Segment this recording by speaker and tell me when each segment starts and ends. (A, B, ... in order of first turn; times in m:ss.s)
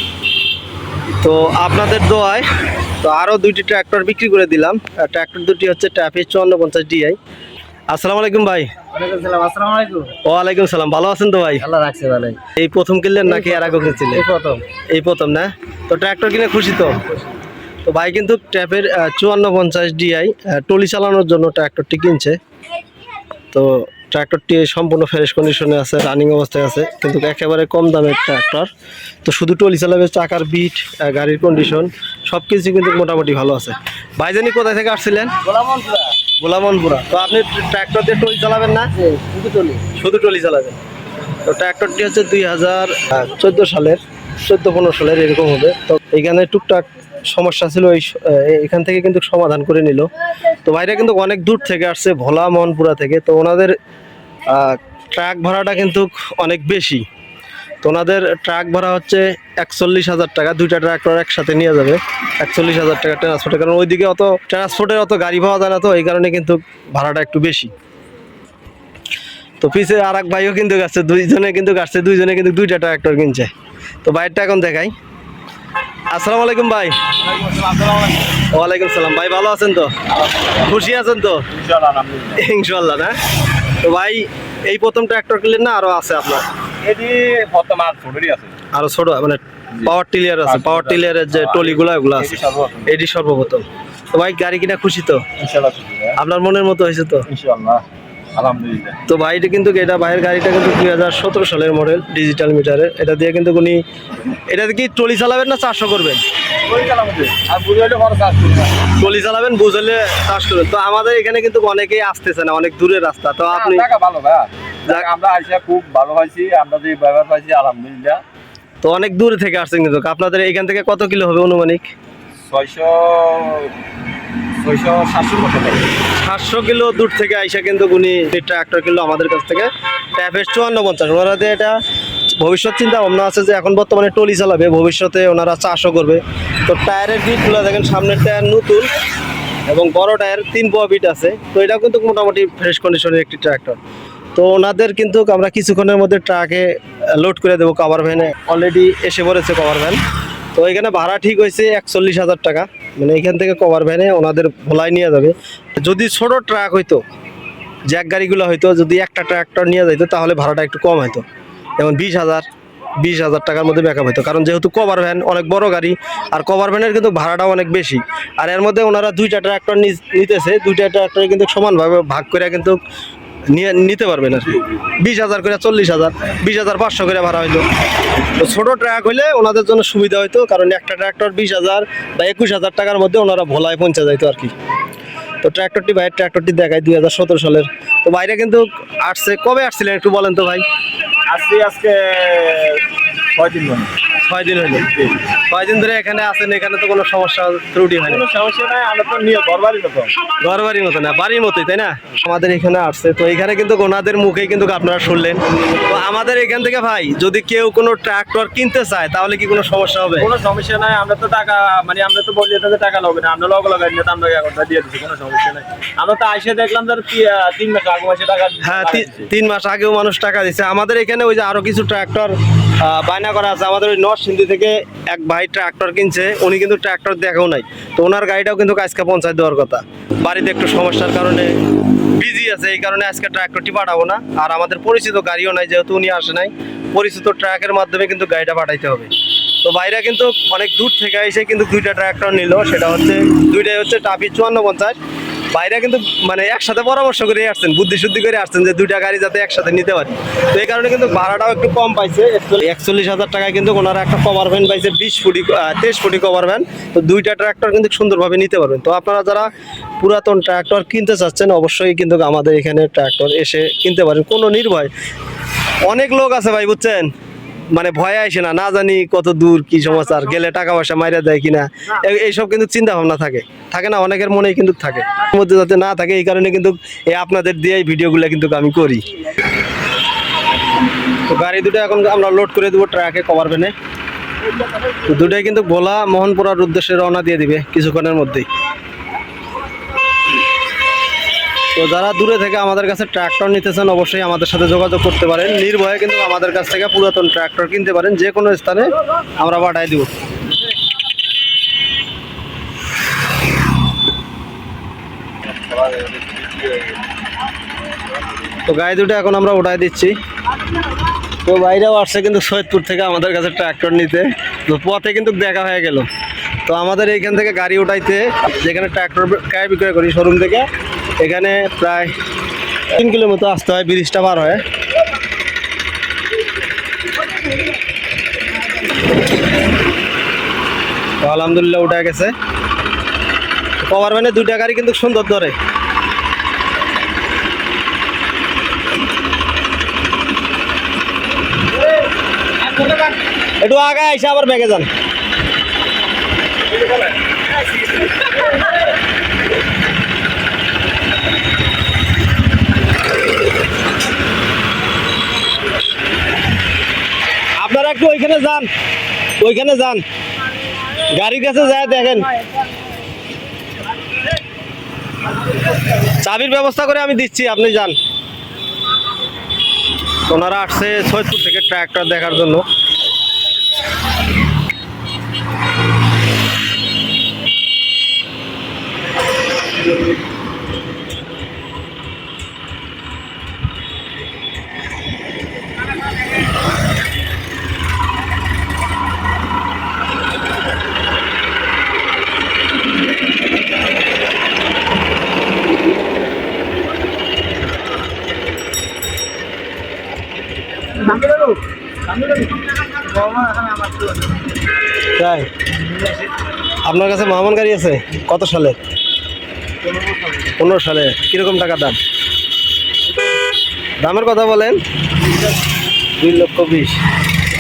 0:01.2-0:02.5 A
0:03.0-0:07.2 A
0:07.9-0:08.8 A
0:08.9-0:10.2 B
0:10.2-0:11.6 A
0:11.6-0:12.4 B
0:12.4-0:14.2 A
0:13.3-0:14.6 B
0:14.9-0:17.0 A
0:17.8-0:22.4 A
0:23.5-0:28.7 A
0:29.2-0:35.4 A
0:35.4-0:36.1 B
0:36.4-0:38.9 A
0:39.0-0:39.8 B
0:39.8-0:40.8 A
0:41.4-0:50.1 A
0:50.6-0:53.7 A
0:54.5-0:57.0 A
0:57.8-1:07.7 A
1:09.6-1:13.5 A
1:14.0-1:14.9 A
1:16.1-1:17.1 A
1:17.2-1:18.4 C
1:18.4-1:20.0 A
1:20.2-1:20.9 C
1:20.6-1:21.5 A
1:21.5-1:22.5 C
1:22.4-1:23.2 A
1:23.8-1:26.5 A
1:26.8-1:28.6 C
1:28.7-1:35.3 A
1:30.5-1:33.0 C
1:35.4-1:36.2 C
1:36.2-1:37.3 A
1:37.3-1:39.0 C
1:39.1-1:43.8 A
1:44.3-1:46.2 A
1:46.6-1:48.9 C
1:48.9-1:53.9 A
1:53.5-1:58.2 C
1:58.8-2:01.9 A
2:02.5-2:03.8 C
2:04.6-2:05.9 C
2:06.1-2:11.8 A
2:12.3-2:18.9 A
2:19.7-2:23.8 A
2:24.3-2:30.0 A
2:30.6-2:37.0 A
2:37.9-2:41.2 A
2:41.8-2:42.4 A
2:43.0-2:52.8 A
2:53.5-2:57.6 A
2:58.2-3:04.5 A
3:05.4-3:10.6 A
3:11.3-3:14.0 C
3:14.2-3:18.2 A
3:14.9-3:15.2 C
3:18.0-3:20.2 C
3:20.4-3:30.3 A
3:30.2-3:39.3 C
3:38.6-3:59.1 A
3:59.6-4:05.0 A
4:05.5-4:19.5 A
4:20.0-4:24.9 A
4:25.8-4:27.1 A
4:27.7-4:39.1 A
4:41.2-4:43.8 A
4:45.1-4:48.5 A
4:51.8-5:00.1 A
5:05.4-5:06.9 C
5:08.7-5:10.1 A
5:11.4-5:16.1 A
5:16.6-5:20.7 A
5:21.2-5:22.1 A
5:22.9-5:24.6 A
5:31.2-5:32.3 A
5:33.8-5:35.6 A
5:43.6-5:44.9 A
5:57.6-5:58.7 A
5:59.4-6:00.0 A
6:01.1-6:02.4 A
6:05.9-6:08.0 A
6:10.3-6:12.7 A
6:41.2-6:41.5 B
6:43.2-6:44.1 B
6:45.1-6:45.5 A
6:46.8-6:48.8 A
6:50.5-6:52.0 A
6:54.0-6:54.8 A
6:56.2-6:57.0 A